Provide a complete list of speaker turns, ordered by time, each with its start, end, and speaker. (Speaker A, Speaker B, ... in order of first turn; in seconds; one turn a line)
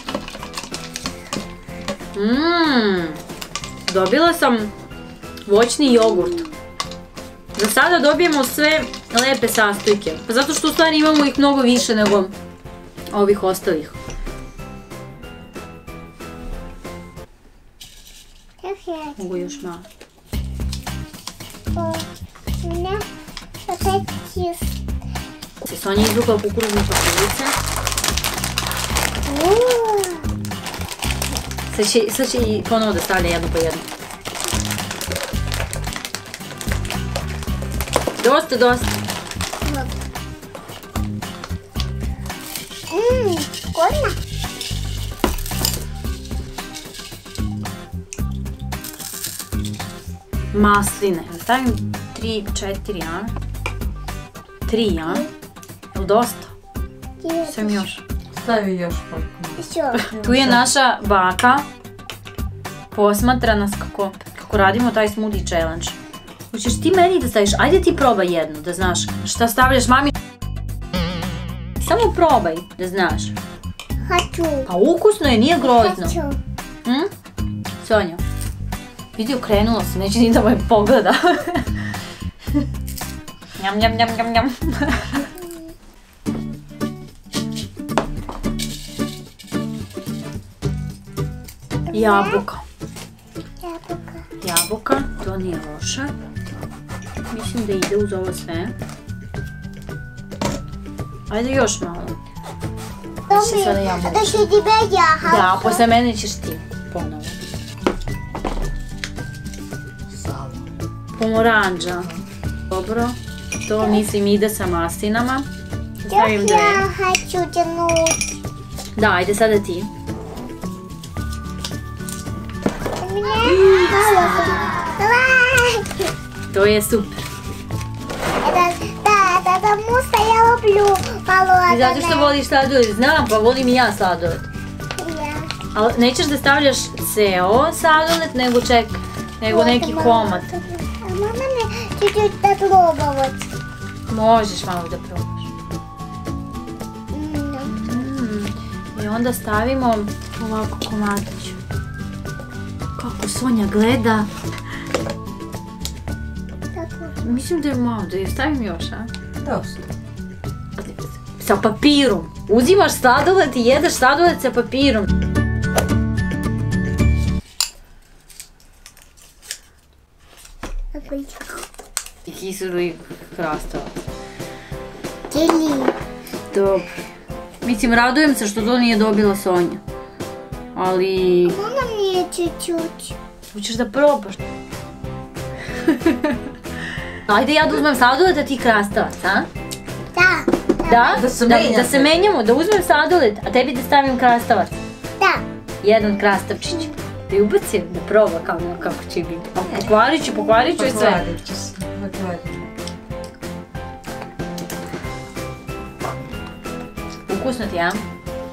Speaker A: 2.1-3.2
Speaker A: 3.9-4.7
Speaker A: 5.5-6.5
Speaker A: 7.5-12.3
Speaker A: 13.1-13.9
Speaker B: 18.6-19.6
Speaker A: 19.2-19.9
Speaker B: 21.7-22.1
Speaker B: 22.6-23.0
Speaker B: 23.7-24.7
Speaker A: 25.6-27.5
Speaker B: 29.2-30.2
Speaker A: 31.7-33.9
Speaker A: 38.2-38.9
Speaker B: 39.6-39.9
Speaker B: 42.9-44.2
Speaker A: 50.5-53.3
Speaker A: 54.7-55.3
Speaker A: 55.9-56.5
Speaker B: 57.2-57.9
Speaker A: 57.5-58.0
Speaker C: 58.4-60.6
Speaker B: 59.6-60.0
Speaker A: 60.0-61.6
Speaker A: 62.9-66.0
Speaker A: 66.5-70.1
Speaker A: 71.8-73.3
Speaker B: 74.0-74.7
Speaker A: 74.7-76.2
Speaker B: 75.6-76.4
Speaker A: 76.8-77.1
Speaker A: 77.8-78.2
Speaker A: 79.2-81.7
Speaker A: 83.6-85.2
Speaker B: 91.9-92.4
Speaker A: 91.9-92.6
Speaker B: 93.6-94.2
Speaker A: 94.4-96.1
Speaker A: 97.3-98.7
Speaker A: 101.3-102.2
Speaker B: 103.3-105.8
Speaker A: 103.3-104.5
Speaker A: 105.2-107.4
Speaker C: 110.1-110.6
Speaker A: 111.2-112.1
Speaker A: 112.7-115.5
Speaker A: 116.0-116.8
Speaker B: 116.1-118.2
Speaker A: 119.0-119.9
Speaker B: 123.0-125.8
Speaker A: 123.4-124.9
Speaker A: 126.5-127.2
Speaker B: 128.4-132.3
Speaker A: 131.7-134.4
Speaker B: 135.0-135.5
Speaker A: 135.7-140.5
Speaker B: 139.4-143.5
Speaker A: 144.1-145.5
Speaker B: 147.1-147.8
Speaker A: 147.7-151.6
Speaker A: 153.0-154.3
Speaker B: 156.7-157.2
Speaker A: 157.2-159.1
Speaker C: 159.4-159.8
Speaker A: 160.8-165.1
Speaker B: 170.9-171.6
Speaker A: 172.2-174.0
Speaker B: 175.3-175.9
Speaker A: 176.5-176.8
Speaker A: 177.6-179.8
Speaker A: 180.7-181.6
Speaker B: 181.4-183.1
Speaker A: 183.5-184.4
Speaker A: 185.9-186.4
Speaker A: 187.3-189.5
Speaker B: 190.1-191.3
Speaker A: 190.8-194.7
Speaker C: 191.1-192.2
Speaker B: 195.2-195.4
Speaker A: 195.8-201.2
Speaker C: 199.7-199.9
Speaker C: 200.6-202.7
Speaker A: 207.3-208.0